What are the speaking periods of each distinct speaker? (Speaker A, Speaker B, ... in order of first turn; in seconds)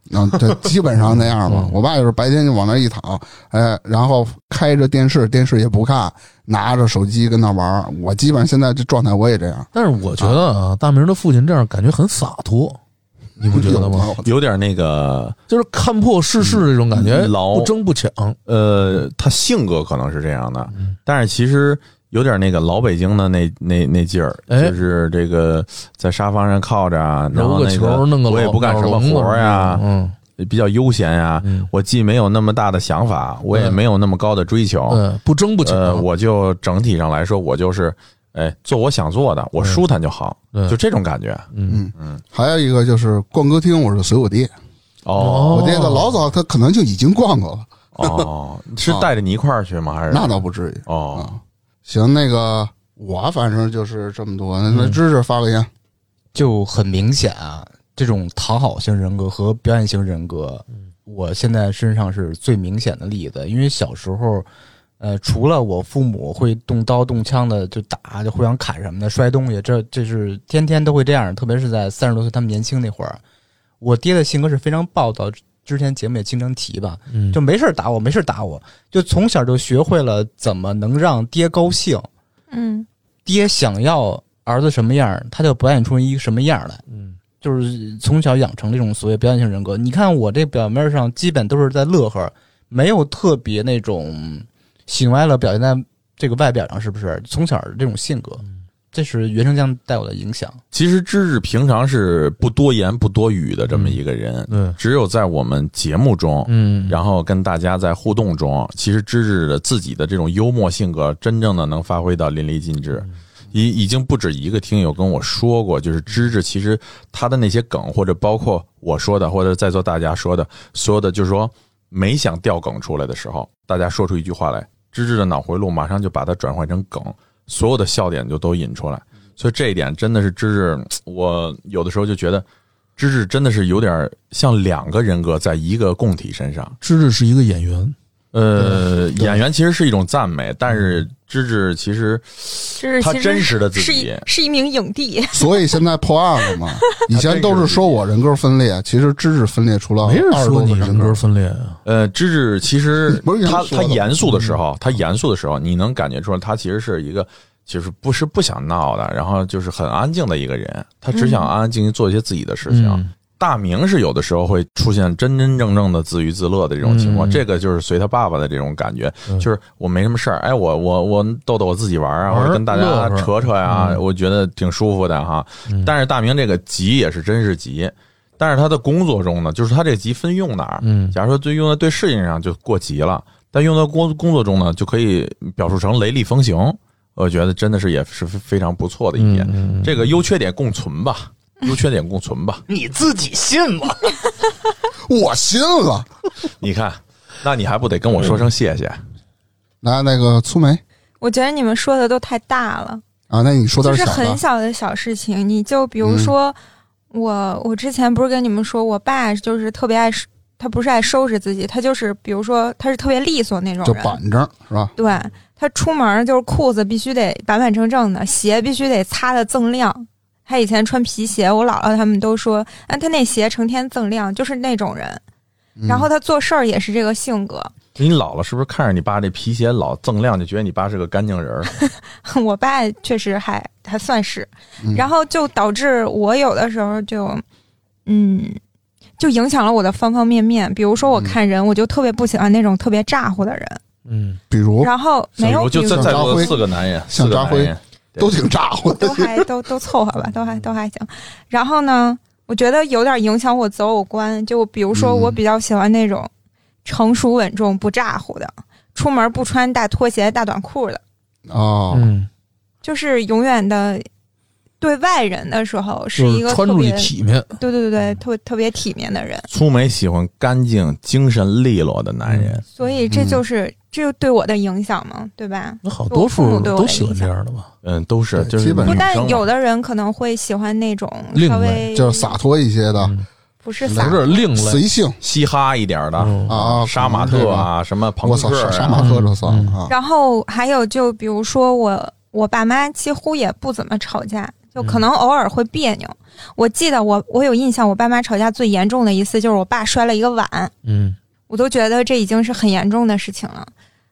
Speaker A: 0.1-10.4, 13.4-14.3, 41.7-44.5, 45.5-48.3, 50.1-55.7, 145.3-151.2, 153.1-154.2, 195.1-196.1, 199.8-200.8, 203.3-204.4, 206.0-206.3, 213.8-214.9, 225.8-226.1, 244.5-244.9, 245.8-246.6, 247.1-249.4, 254.9-255.4, 261.5-262.1, 273.1-273.4, 278.4-279.2, 281.9-283.1, 283.8-285.2, 286.5-287.7, 288.2-289.9
Speaker B: 1.0-1.8, 9.7-12.8, 13.4-14.1, 15.5-18.4, 24.5-24.7, 27.3-30.2, 31.4-31.7, 33.5-33.8, 34.9-36.0, 41.5-41.8, 45.2-46.2, 54.7-55.0, 77.1-77.4, 86.9-87.2, 103.7-104.8, 106.5-107.0, 136.8-137.9, 150.0-151.8, 154.3-154.6, 162.7-163.1, 166.8-167.4, 172.3-174.0, 180.8-181.2, 189.2-190.1, 244.1-244.4, 261.9-262.3, 266.1-267.5, 272.2-272.6, 275.8-277.7, 281.3-281.9, 283.9-284.8, 286.2-286.8, 289.0-289.8, 294.8-295.1, 300.8-301.2
Speaker C: 14.2-15.3, 16.9-17.7, 18.4-29.8, 30.4-35.0, 35.6-42.2, 45.0-45.8, 47.9-51.3, 100.7-132.4, 133.0-136.8, 138.3-144.3, 147.1-148.0, 151.8-192.6, 196.6-199.0, 227.9-231.7, 245.4-248.3, 269.5-272.6, 277.8-279.4, 285.2-289.1
Speaker D: 56.3-64.5, 65.0-73.2, 73.8-82.1, 83.2-86.8, 87.4-100.6, 192.7-194.1
Speaker E: 82.5-82.9, 142.8-145.6, 146.5-147.1, 161.1-161.5, 201.2-203.0, 203.8-206.6, 207.1-214.2, 215.0-225.2, 225.8-227.7, 231.7-237.4, 238.1-238.6, 239.2-243.8, 244.8-246.6, 249.0-256.3, 256.8-261.0, 262.8-264.0, 264.8-269.4, 272.7-277.3, 278.8-282.3, 283.6-284.2, 289.9-300.7, 301.5-303.7